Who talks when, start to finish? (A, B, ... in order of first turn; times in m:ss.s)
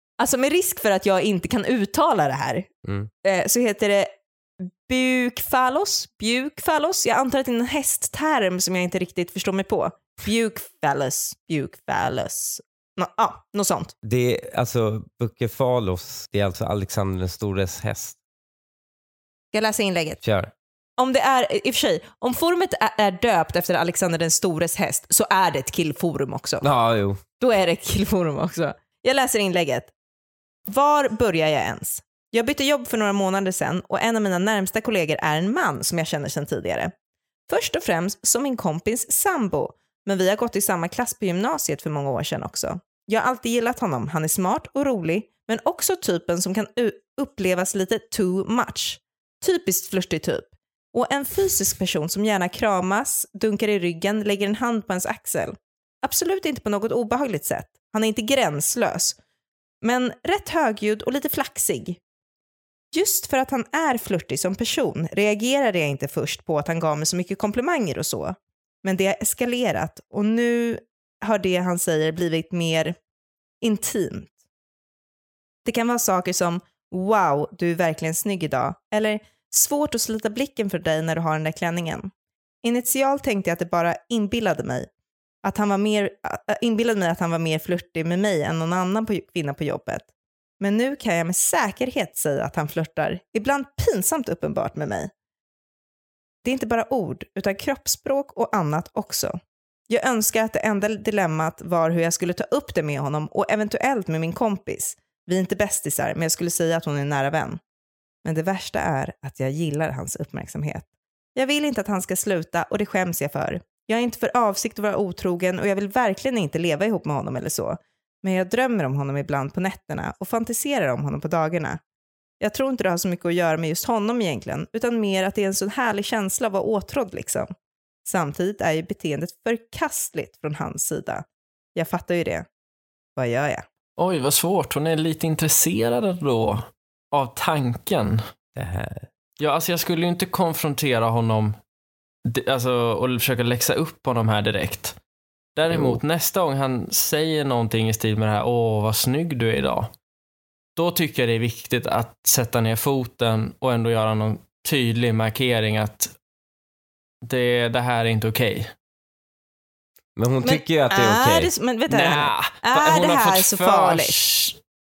0:00.2-0:02.7 A
0:02.8-0:03.1 B
0:03.2-0:04.1 A
0:04.6-0:13.9 A
0:14.0-0:18.2 B
0:19.5-0:20.2 A
0:20.2-0:20.5 B
0:21.0-0:26.6 A
0:26.6-0:27.2 B
0:27.4-0:29.9 A
0:30.7-0:36.9 A
0:37.5-0:59.2 A
0:59.8-1:02.0 A
1:02.9-1:13.0 A
1:13.6-1:14.3 A
1:15.6-1:22.1 A
1:22.6-1:24.9 A
1:25.4-1:30.1 A
1:30.6-1:35.1 A
1:36.4-1:39.4 A
1:39.9-1:47.6 A
1:48.2-2:01.8 A
2:02.4-2:07.5 A
2:08.0-2:12.5 A
2:13.2-2:13.6 A
2:14.0-2:18.2 C
2:18.6-2:19.1 B
2:19.4-2:21.6 C
2:22.2-2:25.0 C
2:25.6-2:29.9 C
2:25.7-2:26.0 B
2:30.8-2:36.1 C
2:37.2-2:38.7 C
2:40.2-2:41.5 B
2:40.4-2:44.2 A
2:41.9-2:44.6 C